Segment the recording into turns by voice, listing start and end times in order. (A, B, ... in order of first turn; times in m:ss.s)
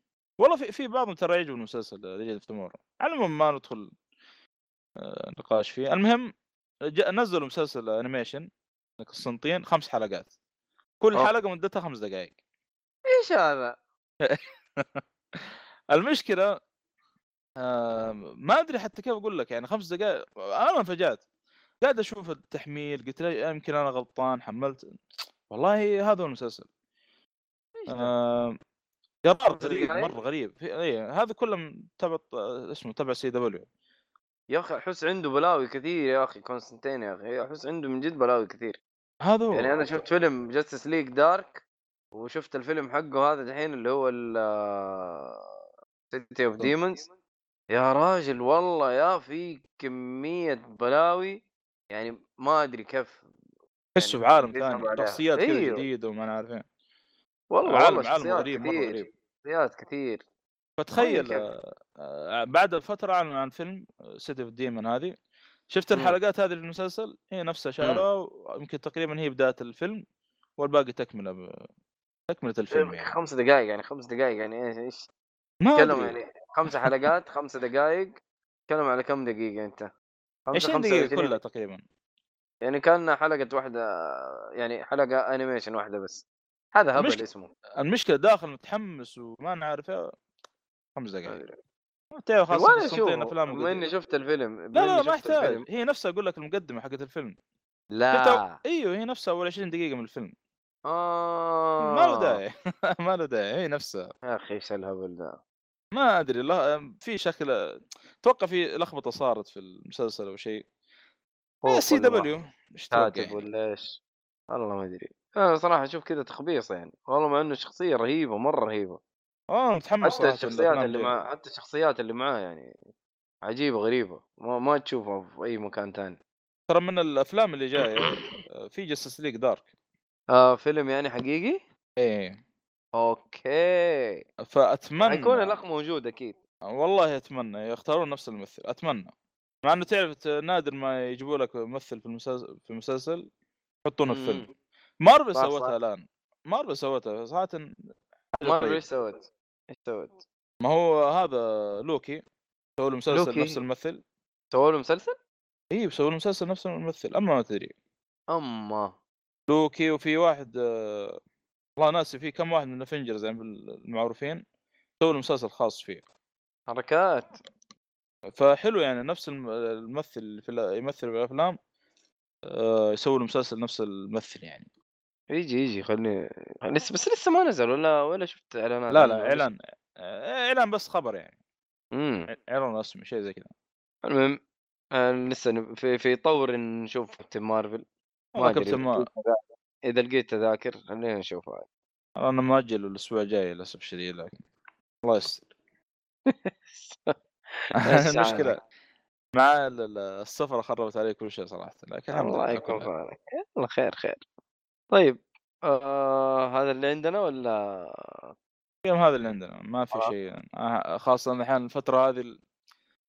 0:00.4-0:03.9 A
0:05.0-0:06.3 A
0:06.9-0:08.4 A
0:09.0-0:10.3 A
0:11.0-0:12.3 A
0:13.1-0:13.8 B
0:14.2-0:15.0 A
0:15.9-0:16.6 A
0:17.6-0:21.2 A
0:21.8-0:24.8 A
0:25.5-0:26.7 A
0:27.8-0:28.1 B
0:27.9-0:28.6 A
0:29.2-0:33.6 A
0:29.6-0:30.1 B
0:34.5-0:38.8 B
0:39.2-0:39.8 A
0:39.5-0:41.6 B
0:42.1-0:45.4 B
0:46.1-0:47.1 B
0:47.7-0:53.2 B
0:53.9-0:56.6 A
0:54.0-0:55.8 B
0:57.5-1:00.2 B
0:57.6-0:59.0 A
1:00.8-1:05.1 A
1:01.0-1:01.4 B
1:05.7-1:10.0 A
1:10.6-1:11.5 A
1:12.3-1:13.1 A
1:12.7-1:15.1 B
1:15.6-1:16.2 A
1:15.8-1:19.9 B
1:20.5-1:21.3 B
1:20.5-1:21.8 A
1:22.6-1:27.5 B
1:27.0-1:27.2 A
1:27.8-1:30.1 A
1:31.0-1:31.4 A
1:31.3-1:31.6 B
1:32.1-1:33.9 A
1:32.5-1:35.6 B
1:34.7-1:37.4 A
1:37.9-1:38.6 B
1:38.1-1:40.3 A
1:40.8-1:42.4 B
1:41.8-1:44.1 A
1:44.2-1:45.4 B
1:45.9-1:47.5 A
1:48.2-1:50.6 A
1:51.6-1:52.3 B
1:51.6-1:53.4 A
1:52.9-1:54.0 B
1:54.5-1:59.0 B
1:59.5-2:01.1 A
2:00.0-2:02.8 B
2:03.4-2:06.2 B
2:06.7-2:09.6 A
2:08.0-2:08.3 B
2:10.3-2:11.6 B
2:12.0-2:12.4 A
2:13.0-2:14.2 B
2:14.4-2:15.6 A
2:15.0-2:16.4 B
2:16.7-2:19.1 A
2:19.6-2:23.3 A
2:23.8-2:24.4 A
2:24.1-2:24.5 B
2:25.0-2:27.7 A
2:25.3-2:25.7 B
2:28.3-2:28.8 A
2:28.4-2:30.2 B
2:30.6-2:32.2 A
2:32.8-2:34.0 A
2:33.1-2:33.6 B
2:34.5-2:35.2 B
2:35.7-2:37.7 A
2:38.3-2:38.9 B
2:39.5-2:41.2 A
2:41.8-2:44.4 A
2:45.0-2:46.0 A
2:46.7-2:47.4 B
2:48.4-2:51.6 A
2:52.5-2:54.6 A
2:55.3-2:59.4 B
2:58.9-3:01.3 A
3:01.9-3:02.3 B
3:02.3-3:03.5 A
3:04.0-3:04.4 B
3:04.9-3:07.8 B
3:08.4-3:09.0 A
3:08.4-3:11.6 B
3:12.2-3:14.4 A
3:15.0-3:15.4 A
3:16.2-3:18.5 B
3:17.8-3:18.6 A
3:19.3-3:22.9 A
3:22.1-3:24.2 B
3:24.9-3:28.3 B
3:28.8-3:32.4 A